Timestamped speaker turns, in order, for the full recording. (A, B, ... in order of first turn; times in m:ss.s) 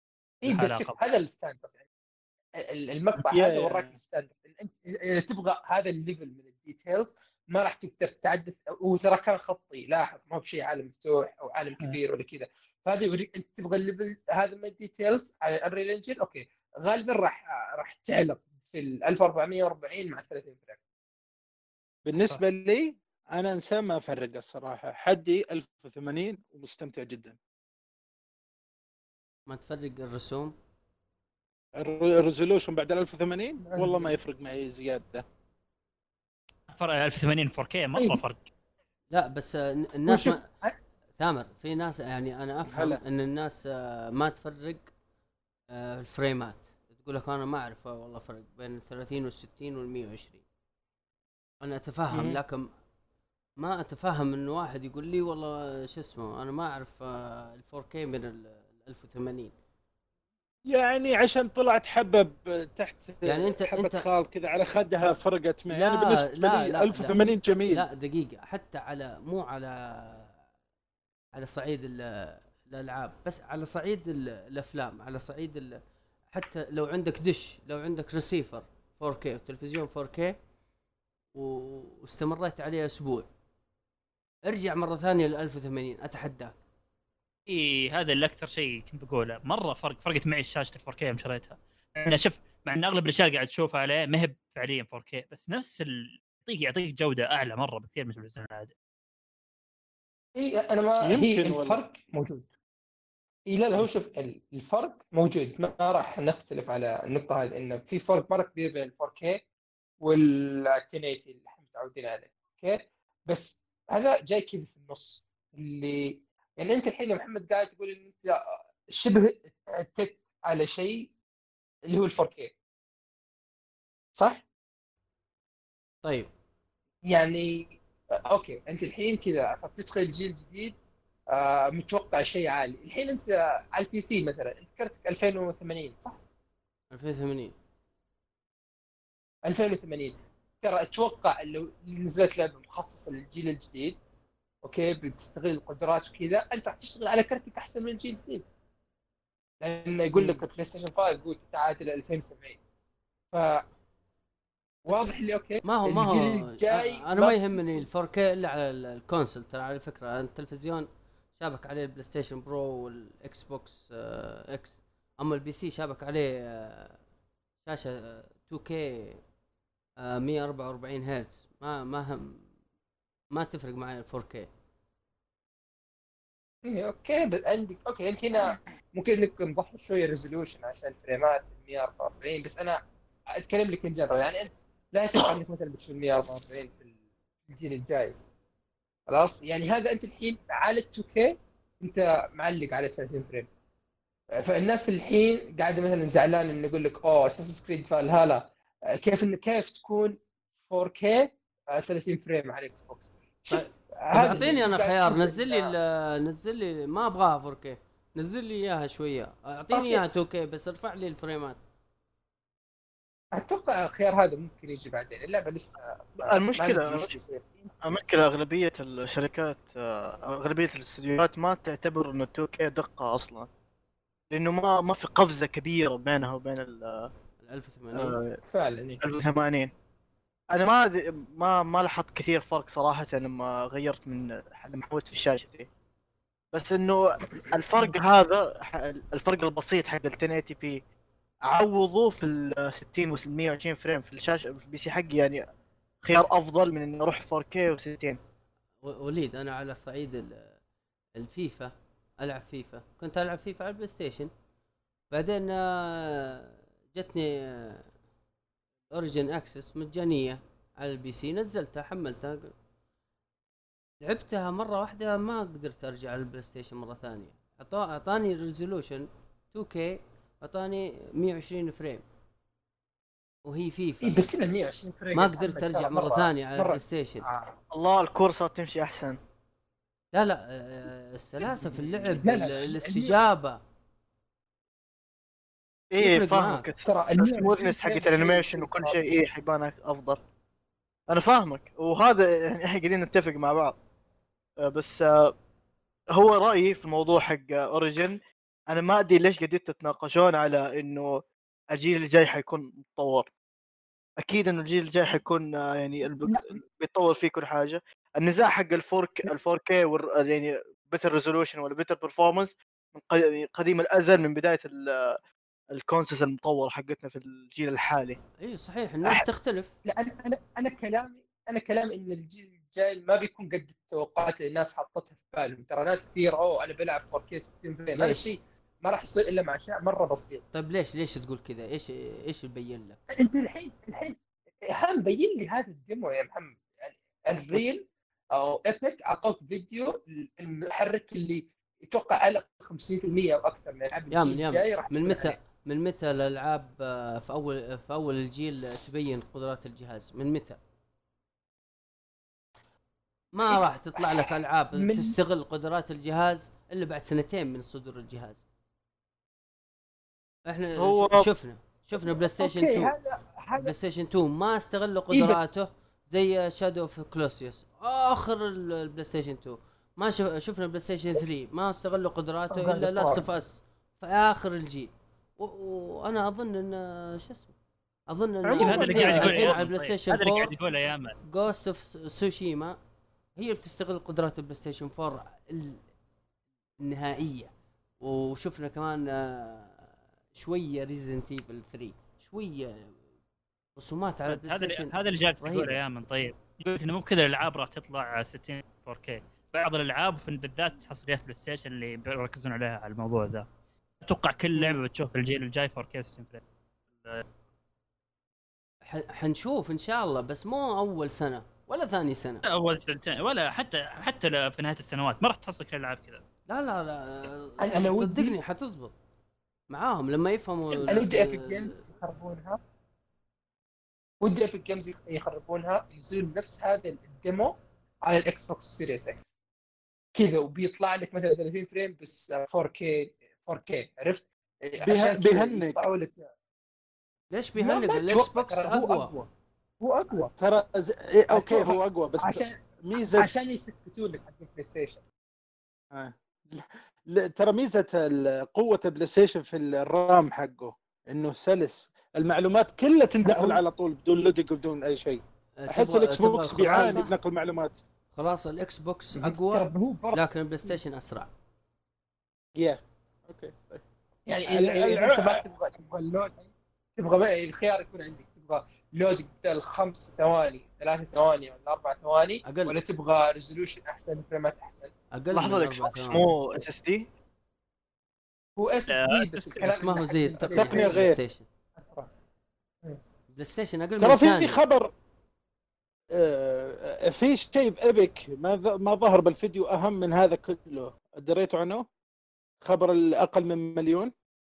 0:00.4-0:01.7 A
0:00.4-0:01.0 B
0:02.6-0:20.8 A
0:03.2-0:03.9 C
0:22.0-0:27.4 C
0:22.1-0:22.4 B
0:29.5-0:30.5 D
0:31.7-0:35.2 C
0:33.6-0:34.1 A
0:36.7-0:38.4 B
0:39.1-0:40.4 D
0:40.1-0:40.8 A
0:41.2-0:44.9 D
0:42.7-0:43.0 C
0:45.7-0:50.4 D
0:51.6-0:52.7 D
0:52.1-0:52.4 C
0:53.6-0:59.5 D
1:00.7-1:07.8 C
1:03.2-1:04.1 D
1:05.7-1:10.4 D
1:11.3-1:15.8 D
1:16.3-1:20.4 D
1:21.3-1:23.3 D
1:24.5-1:26.6 D
1:27.5-1:38.7 B
1:40.4-1:42.5 A
1:41.0-1:41.8 C
1:43.5-1:49.4 A
1:50.0-2:01.1 A
2:01.9-2:02.5 A
2:04.2-2:04.4 A
2:06.0-2:06.3 D
2:07.0-2:10.8 A
2:11.3-2:16.2 A
2:16.9-2:17.5 D
2:19.4-2:24.0 A
2:24.6-2:28.4 A
2:29.6-2:32.6 A
2:30.1-2:30.4 D
2:33.3-2:33.6 A
2:34.8-2:37.6 A
2:34.9-2:35.1 D
2:35.6-2:47.0 D
2:47.6-2:49.2 D
2:50.0-2:52.5 D
2:53.3-2:54.5 D
2:56.6-3:02.8 A
3:03.3-3:06.9 A
3:07.4-3:08.2 A
3:09.1-3:13.5 A
3:14.4-3:25.8 A
3:23.5-3:31.6 D
3:29.7-3:30.0 A
3:33.3-3:37.6 A
3:36.2-3:37.2 E
3:37.8-3:43.5 E
3:44.3-3:47.1 E
3:47.4-3:48.2 D
3:47.9-3:48.4 E
3:48.4-3:49.1 A
3:49.0-3:49.7 E
3:50.5-3:55.7 E
3:56.5-4:00.8 E
4:01.4-4:05.4 E
4:06.0-4:08.2 E
4:08.8-4:10.6 D
4:11.2-4:14.3 D
4:15.1-4:17.9 D
4:18.9-4:22.5 D
4:24.0-4:32.0 D
4:33.4-4:34.2 D
4:34.0-4:37.6 A
4:35.1-4:37.2 D
4:37.7-4:39.2 E
4:40.1-4:43.6 D
4:42.1-4:43.2 A
4:45.9-4:50.2 E
4:46.0-4:46.7 D
4:46.8-4:49.0 A
4:51.1-4:53.8 E
4:54.6-4:55.3 E
4:56.1-5:03.3 E
5:04.2-5:15.1 E
5:06.3-5:06.5 A
5:15.7-5:18.2 E
5:18.4-5:19.7 D
5:19.8-5:30.4 A
5:27.9-5:28.3 D
5:30.5-5:33.0 D
5:33.2-5:45.4 A
5:44.1-5:50.6 D
5:53.3-5:58.4 D
5:53.4-5:55.2 A
6:00.5-6:03.0 D
6:00.8-6:01.3 E
6:02.0-6:03.7 A
6:03.6-6:17.5 D
6:05.1-6:05.4 A
6:12.5-6:13.2 A
6:18.1-6:20.5 D
6:18.5-6:21.2 B
6:18.6-6:19.5 A
6:18.9-6:19.5 C
6:21.2-6:22.8 D
6:23.4-6:25.8 D
6:26.8-6:33.0 D
6:33.8-6:35.8 D
6:34.3-6:43.4 B
6:44.0-6:46.4 B
6:47.0-6:47.2 B
6:48.8-6:52.4 D
6:52.4-6:56.2 B
6:56.5-6:58.9 D
6:57.6-6:58.4 A
6:59.7-7:01.8 D
7:00.9-7:02.6 A
7:04.2-7:09.3 A
7:10.1-7:16.2 A
7:14.8-7:15.8 C
7:17.3-7:19.1 D
7:17.6-7:19.3 A
7:19.8-7:20.3 A
7:20.3-7:23.3 C
7:21.3-7:25.0 A
7:25.9-7:37.8 C
7:33.2-7:33.6 A
7:35.6-7:37.1 D
7:36.6-7:37.0 A
7:38.1-7:41.3 D
7:39.2-7:40.8 A
7:42.6-7:43.8 C
7:44.3-7:54.9 A
7:44.4-7:45.4 C
7:52.4-7:52.8 D
7:55.1-7:56.4 D
7:55.3-7:57.0 E
7:58.6-8:01.1 A
7:58.9-7:59.6 B
7:59.6-8:01.5 D
8:00.4-8:01.2 C
8:01.8-8:02.1 A
8:03.3-8:04.6 D
8:04.0-8:04.9 C
8:06.1-8:11.8 C
8:12.6-8:14.1 C